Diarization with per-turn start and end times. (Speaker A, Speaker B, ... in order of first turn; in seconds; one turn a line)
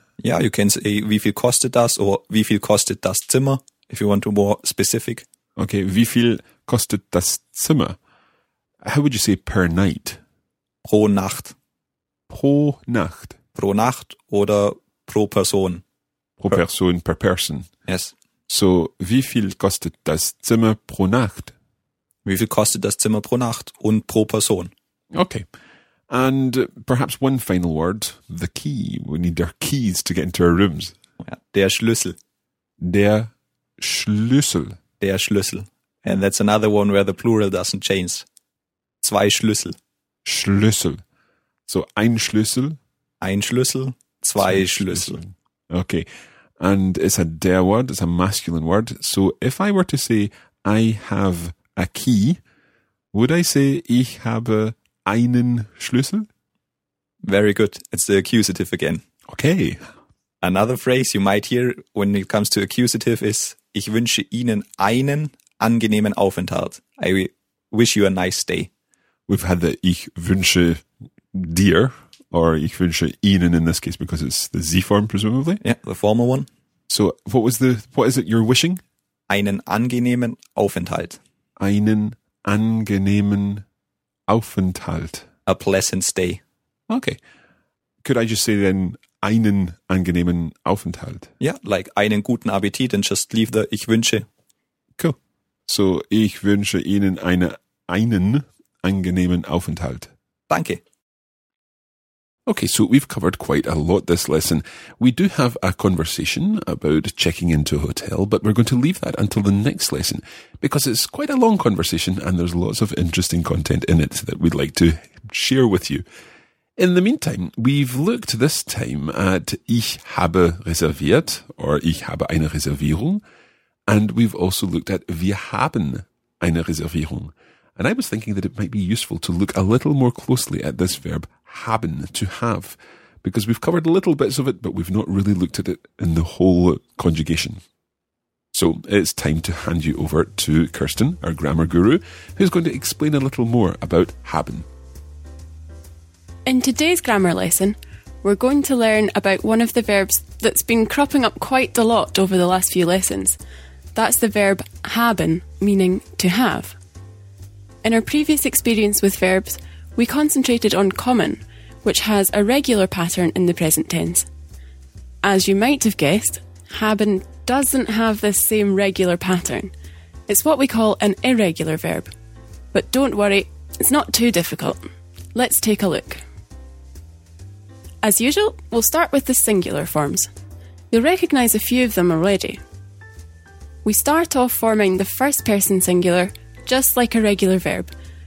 Speaker A: 0.2-5.2
Speaker B: 5.6-8.0
Speaker B: 8.8-10.2
Speaker A: 10.8-11.5
Speaker B: 12.3-13.4
Speaker A: 13.6-15.8
Speaker B: 16.4-17.7
Speaker A: 17.9-18.1
Speaker B: 18.5-21.5
Speaker A: 22.2-24.7
Speaker B: 25.1-25.4
Speaker B: 26.1-30.9
Speaker A: 31.2-32.1
Speaker B: 32.8-34.8
Speaker A: 35.0-38.2
Speaker A: 39.0-39.7
Speaker B: 40.2-41.0
Speaker B: 41.7-42.8
Speaker A: 43.2-45.2
Speaker B: 44.4-46.1
Speaker B: 46.6-52.4
Speaker B: 53.1-56.3
Speaker A: 57.2-59.0
Speaker B: 59.3-59.8
Speaker A: 60.4-68.7
Speaker B: 69.3-75.6
Speaker A: 75.6-76.5
Speaker B: 76.9-78.8
Speaker A: 79.3-81.2
Speaker B: 81.6-83.6
Speaker B: 84.3-85.2
Speaker A: 85.5-86.4
Speaker B: 86.9-87.2
Speaker B: 88.0-91.3
Speaker A: 91.4-94.2
Speaker B: 95.0-100.1
Speaker A: 100.5-100.8
Speaker B: 102.5-116.0
Speaker B: 116.8-123.2
Speaker B: 123.9-137.6
Speaker B: 138.5-144.7
Speaker C: 146.4-153.4
Speaker C: 153.9-156.8
Speaker C: 157.8-164.2
Speaker C: 165.2-169.7
Speaker C: 170.3-172.1
Speaker C: 172.7-176.2
Speaker C: 178.0-180.3
Speaker C: 180.9-182.6
Speaker C: 183.8-187.9